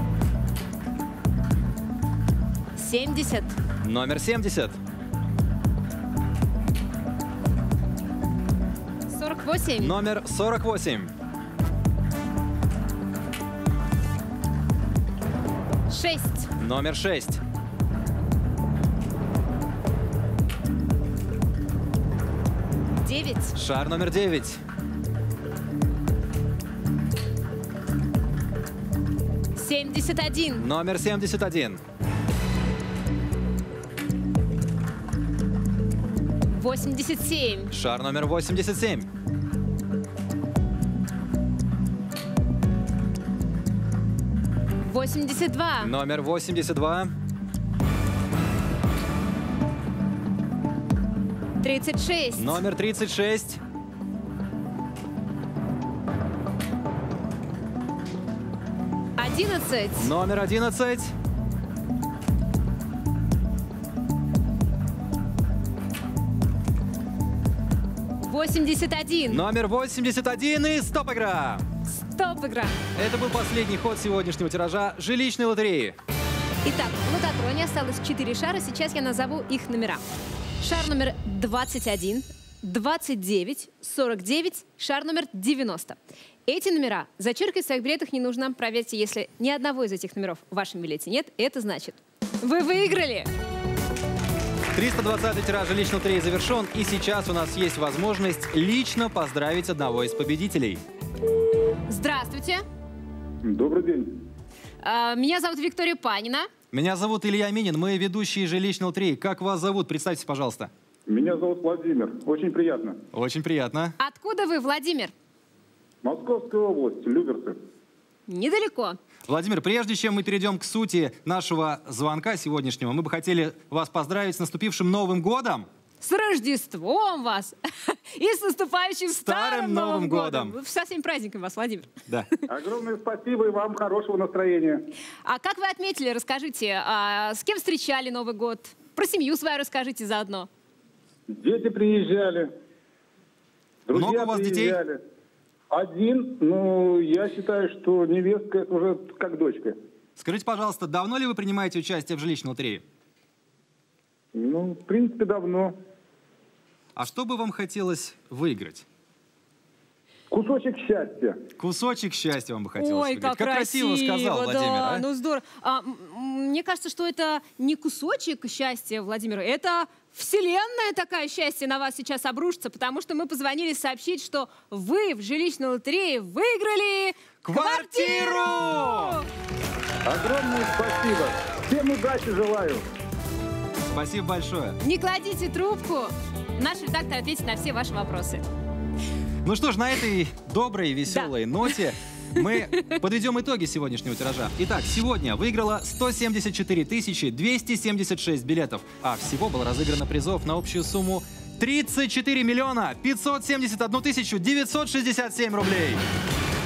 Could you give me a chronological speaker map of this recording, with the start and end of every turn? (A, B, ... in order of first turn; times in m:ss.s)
0:02.8-0:03.6 A
0:03.8-0:04.8 B
0:09.1-0:09.9 A
0:09.8-0:11.1 B
0:15.9-0:16.5 A
0:16.6-0:17.4 B
0:23.0-0:23.6 A
0:23.6-0:24.6 B
0:29.6-0:30.7 A
0:30.6-0:31.8 B
0:36.5-0:37.7 A
0:37.7-0:39.1 B
0:44.8-0:45.9 A
0:45.8-0:47.1 B
0:51.6-0:52.6 A
0:52.4-0:53.6 B
0:59.2-1:00.1 A
1:00.0-1:01.1 B
1:08.2-1:09.4 A
1:09.3-1:11.6 B
1:11.9-1:12.8 A
1:13.0-1:16.0 B
1:16.6-1:20.0 A
1:20.6-1:33.3 A
1:34.8-1:40.8 B
1:41.9-1:42.6 A
1:43.4-1:44.2 C
1:44.8-1:46.5 A
1:46.7-1:50.7 B
1:51.1-1:53.0 C
1:53.1-1:54.0 B
1:54.0-1:55.1 A
1:56.0-1:57.6 C
1:58.3-1:59.0 A
1:59.3-2:05.7 B
2:06.0-2:11.9 A
2:09.2-2:10.6 B
2:12.5-2:14.8 C
2:15.2-2:20.5 A
2:21.3-2:22.5 C
2:23.9-2:25.0 C
2:23.9-2:24.8 B
2:25.7-2:29.8 C
2:30.2-2:32.8 B
2:34.3-2:35.8 C
2:37.0-2:38.8 B
2:40.3-2:41.4 C
2:41.6-2:45.0 B
2:42.8-2:59.3 A
2:57.4-2:59.2 B
3:00.1-3:02.8 C
3:03.9-3:04.8 B
3:04.8-3:08.4 A
3:09.4-3:26.0 B